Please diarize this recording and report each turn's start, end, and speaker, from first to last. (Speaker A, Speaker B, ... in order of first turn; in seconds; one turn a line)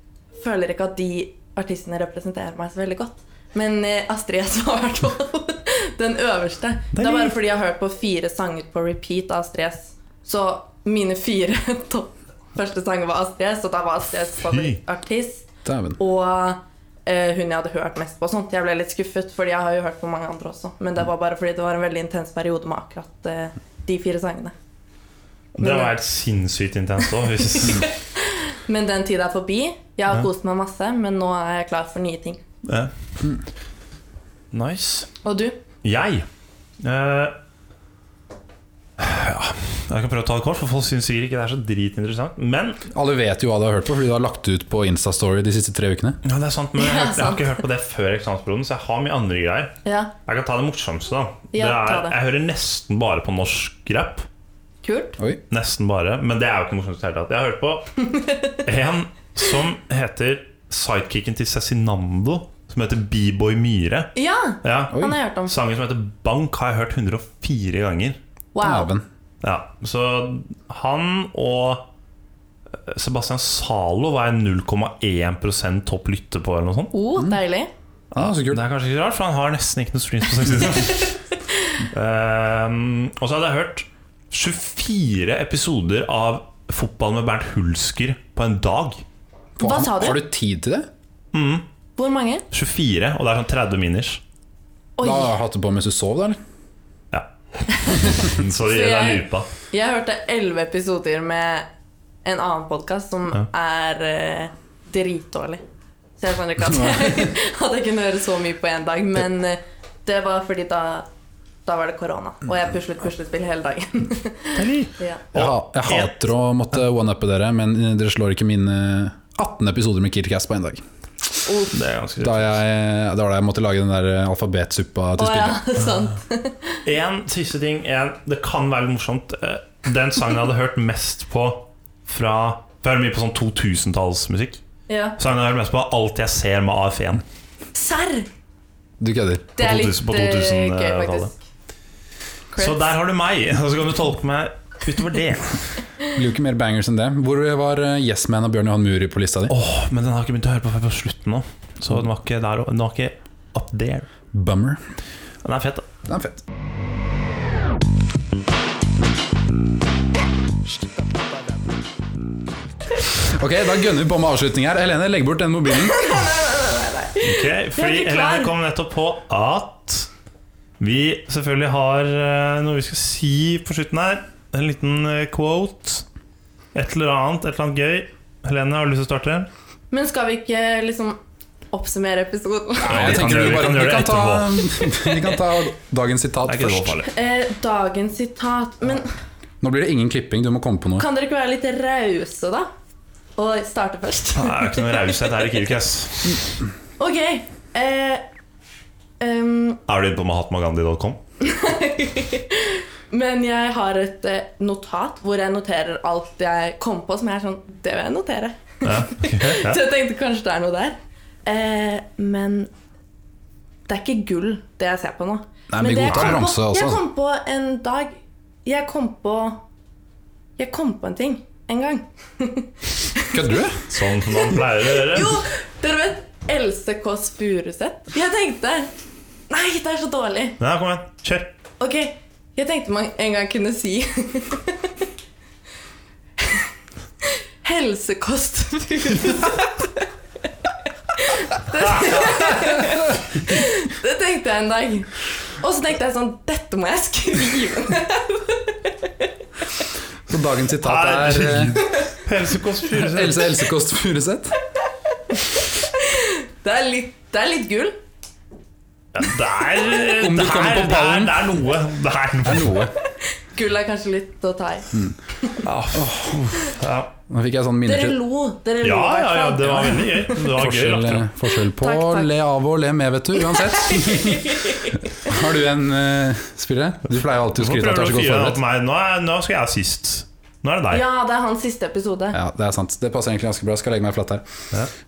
Speaker A: 0.4-24.5
Speaker B: 6.9-7.3
Speaker B: 14.5-14.8
Speaker C: 15.6-16.0
Speaker B: 25.6-27.9
Speaker A: 25.6-25.9
Speaker A: 27.2-32.4
Speaker B: 32.6-32.9
Speaker B: 34.5-35.1
Speaker A: 35.2-35.6
Speaker B: 35.8-36.2
Speaker B: 36.8-37.3
Speaker B: 39.0-42.8
Speaker C: 42.9-46.2
Speaker B: 46.2-49.7
Speaker A: 46.8-47.6
Speaker A: 49.8-50.1
Speaker B: 50.2-54.2
Speaker A: 51.5-52.1
Speaker A: 54.8-55.1
Speaker B: 55.5-57.8
Speaker A: 58.0-58.6
Speaker B: 58.6-64.1
Speaker A: 64.1-65.5
Speaker B: 64.6-68.2
Speaker A: 68.5-68.9
Speaker C: 68.6-69.0
Speaker B: 69.4-71.8
Speaker B: 72.7-76.9
Speaker A: 76.9-77.7
Speaker B: 78.1-81.1
Speaker C: 78.2-78.6
Speaker B: 81.9-89.0
Speaker C: 89.6-90.9
Speaker A: 89.6-90.2
Speaker B: 91.3-91.6
Speaker A: 92.0-92.4
Speaker B: 92.5-94.2
Speaker A: 95.0-95.3
Speaker C: 95.0-96.4
Speaker A: 97.7-101.7
Speaker B: 97.9-99.5
Speaker A: 102.2-105.6
Speaker A: 106.2-111.0
Speaker A: 111.7-115.2
Speaker B: 114.5-116.2
Speaker C: 115.3-120.8
Speaker A: 121.5-121.7
Speaker B: 121.7-122.6
Speaker C: 122.2-125.7
Speaker A: 125.2-126.8
Speaker B: 126.8-134.6
Speaker A: 134.9-135.2
Speaker B: 135.2-137.2
Speaker A: 137.7-138.3
Speaker C: 139.0-139.5
Speaker A: 139.6-141.4
Speaker B: 139.6-141.3
Speaker A: 142.5-142.8
Speaker B: 142.6-145.7
Speaker C: 146.1-149.5
Speaker B: 149.5-154.1
Speaker C: 154.3-154.8
Speaker B: 155.4-155.8
Speaker C: 156.1-156.4
Speaker C: 163.2-166.0
Speaker A: 165.7-168.5
Speaker B: 167.2-170.1
Speaker B: 170.8-176.0
Speaker B: 176.7-179.5
Speaker A: 179.9-181.2
Speaker A: 181.7-183.2
Speaker C: 182.8-187.0
Speaker B: 182.8-184.6
Speaker B: 186.4-187.1
Speaker A: 187.1-189.1
Speaker C: 189.6-191.1
Speaker A: 191.0-192.7
Speaker A: 193.4-195.2
Speaker B: 194.3-196.4
Speaker A: 197.0-198.2
Speaker A: 199.2-199.8
Speaker B: 199.9-201.2
Speaker A: 201.4-212.7
Speaker B: 208.8-209.8
Speaker A: 213.9-219.6
Speaker C: 215.7-217.0
Speaker B: 216.1-216.4
Speaker A: 220.6-223.6
Speaker C: 223.3-223.8
Speaker B: 223.9-225.4
Speaker A: 224.2-228.9
Speaker A: 229.5-230.6
Speaker B: 230.6-231.5
Speaker A: 231.8-234.9
Speaker A: 236.4-236.7
Speaker A: 237.2-240.1
Speaker A: 241.1-249.3
Speaker B: 242.0-242.4
Speaker C: 250.3-251.8
Speaker B: 250.8-253.5
Speaker C: 253.0-254.6
Speaker A: 255.3-257.9
Speaker B: 259.1-262.8
Speaker C: 260.2-261.5
Speaker C: 262.4-262.9
Speaker A: 263.0-265.6
Speaker B: 265.6-267.1
Speaker C: 265.9-266.4
Speaker C: 267.3-268.2
Speaker A: 267.8-270.4
Speaker B: 268.8-271.3
Speaker C: 270.5-278.6
Speaker A: 271.8-272.3
Speaker A: 273.4-275.1
Speaker B: 277.6-281.0
Speaker A: 280.9-282.4
Speaker C: 282.3-284.4